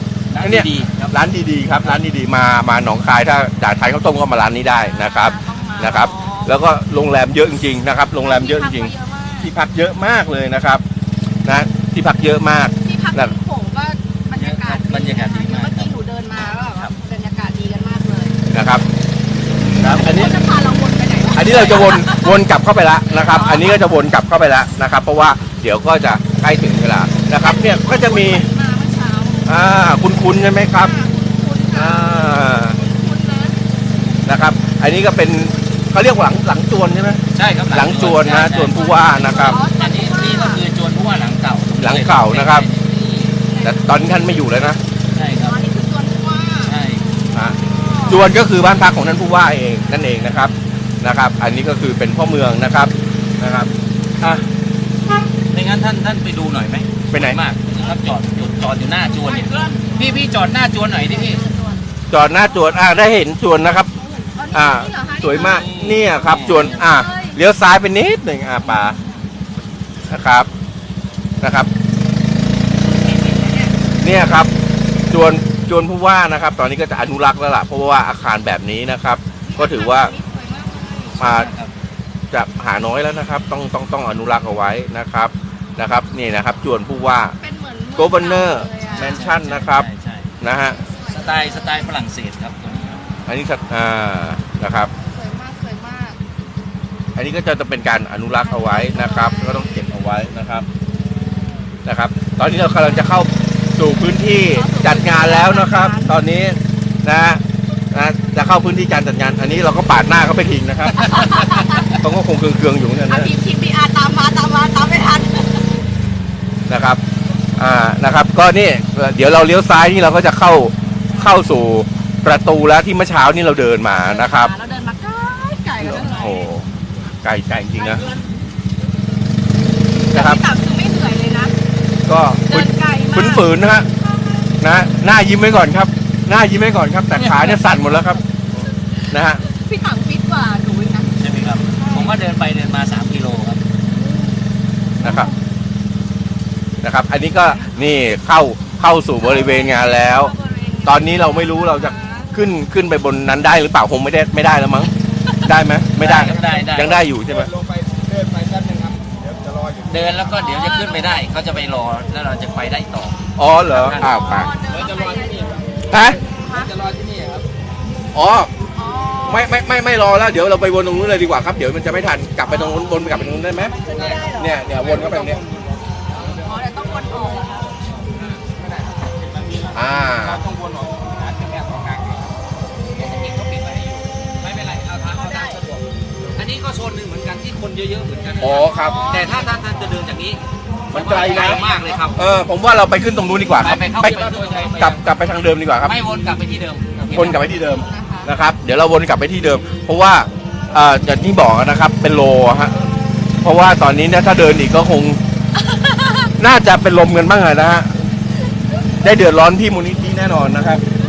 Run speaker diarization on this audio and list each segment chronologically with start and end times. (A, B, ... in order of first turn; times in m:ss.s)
0:00.3-0:01.2 A
0:00.4-0:08.9 B
0:04.8-0:06.6 C
0:08.2-0:09.5 C
0:09.4-0:10.8 B
0:11.4-0:13.3 B
0:12.8-0:18.4 C
0:14.4-0:15.9 A
0:18.5-0:18.8 B
0:19.8-0:20.3 A
0:19.8-0:22.4 C
0:20.0-0:20.3 B
0:21.3-0:28.5 B
0:23.1-0:23.8 C
0:27.4-0:29.5 C
0:29.5-0:30.9 B
0:30.8-0:33.6 C
0:31.7-0:32.8 B
0:34.3-0:39.6 B
0:37.3-0:43.4 A
0:38.9-0:40.6 C
0:41.8-0:42.7 B
0:43.5-0:43.9 C
0:43.6-0:44.8 B
0:45.2-0:45.6 A
0:45.4-0:46.8 C
0:46.7-0:47.0 A
0:47.3-0:53.7 B
0:47.7-0:48.2 C
0:55.5-1:01.4 A
0:57.1-0:57.4 B
0:59.6-1:00.2 C
1:01.1-1:01.8 C
1:02.1-1:03.9 B
1:04.0-1:05.7 C
1:04.5-1:09.0 B
1:05.4-1:06.8 A
1:06.4-1:07.4 C
1:08.7-1:09.0 C
1:10.1-1:10.5 B
1:11.4-1:11.7 B
1:13.1-1:13.7 C
1:14.0-1:14.5 B
1:15.1-1:20.1 B
1:19.5-1:21.2 C
1:21.2-1:21.7 A
1:21.2-1:21.5 B
1:22.3-1:27.4 B
1:27.4-1:29.2 C
1:28.0-1:29.9 B
1:28.9-1:30.3 A
1:30.4-1:30.8 B
1:30.8-1:32.0 C
1:31.1-1:33.0 A
1:33.3-1:34.9 B
1:35.0-1:36.2 C
1:37.2-1:40.7 B
1:38.4-1:39.9 C
1:41.8-1:47.4 B
1:44.5-1:46.1 C
1:47.9-1:51.2 B
1:51.1-1:51.9 C
1:51.8-1:53.3 B
1:53.1-1:55.6 C
1:56.7-1:57.0 B
1:57.6-2:04.5 B
2:03.9-2:06.5 C
2:05.8-2:06.7 B
2:07.2-2:08.0 B
2:07.8-2:08.3 C
2:10.1-2:11.5 C
2:10.1-2:10.4 B
2:12.1-2:13.9 B
2:12.5-2:13.5 C
2:14.6-2:18.2 B
2:17.2-2:17.6 A
2:19.0-2:21.1 C
2:19.1-2:19.4 B
2:21.2-2:23.6 A
2:21.8-2:22.1 C
2:23.9-2:24.4 C
2:25.0-2:25.4 C
2:25.0-2:25.3 B
2:26.8-2:30.3 B
2:29.2-2:32.3 C
2:30.9-2:34.9 B
2:35.4-2:37.5 B
2:36.0-2:37.0 A
2:36.1-2:40.4 D
2:39.9-2:43.2 A
2:40.4-2:41.3 C
2:43.4-2:44.5 B
2:43.7-2:44.2 A
2:44.0-2:45.6 C
2:44.7-2:47.5 D
2:45.9-2:46.2 B
2:46.4-2:46.7 C
2:48.1-2:48.5 B
2:48.8-2:49.5 C
2:49.3-2:53.8 B
2:52.5-2:54.6 C
2:53.9-3:02.4 D
2:54.4-2:55.4 B
2:56.4-2:57.7 C
2:59.7-3:00.4 B
3:03.0-3:05.6 A
3:03.6-3:04.0 D
3:05.1-3:06.3 D
3:05.1-3:05.6 C
3:06.4-3:10.4 A
3:08.4-3:09.0 B
3:08.5-3:09.6 C
3:10.9-3:11.6 B
3:10.9-3:12.2 A
3:11.1-3:12.1 D
3:12.2-3:15.9 B
3:13.6-3:15.0 A
3:13.7-3:14.9 D
3:15.8-3:17.4 A
3:17.1-3:22.8 B
3:17.1-3:18.3 C
3:23.4-3:25.2 B
3:25.7-3:26.3 C
3:26.4-3:27.9 B
3:29.0-3:30.8 B